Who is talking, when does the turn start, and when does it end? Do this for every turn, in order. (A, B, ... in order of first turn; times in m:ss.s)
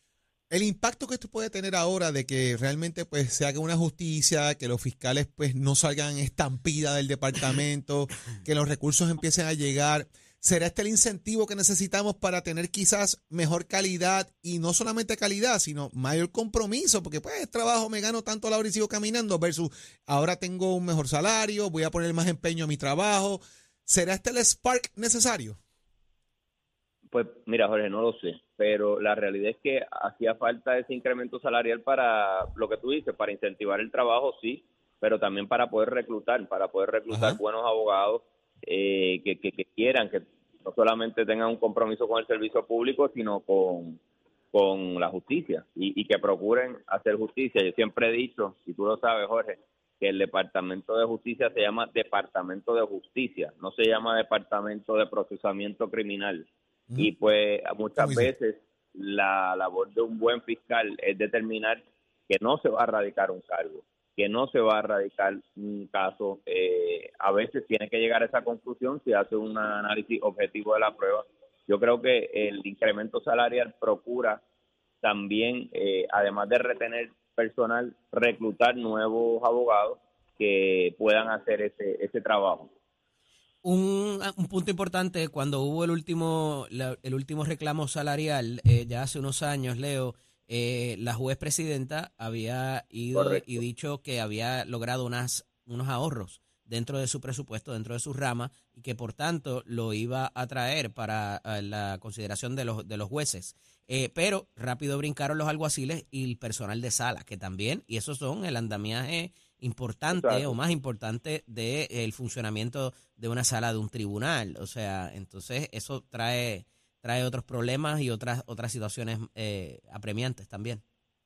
0:00.5-0:25.6 A
0:27.1-0:44.0 B
0:37.1-0:37.4 A
0:44.5-0:56.4 B
0:57.0-1:14.4 B
0:58.0-0:58.3 A
1:15.0-1:22.7 B
1:23.6-2:00.8 C
1:33.2-1:33.4 B
1:50.1-1:50.5 B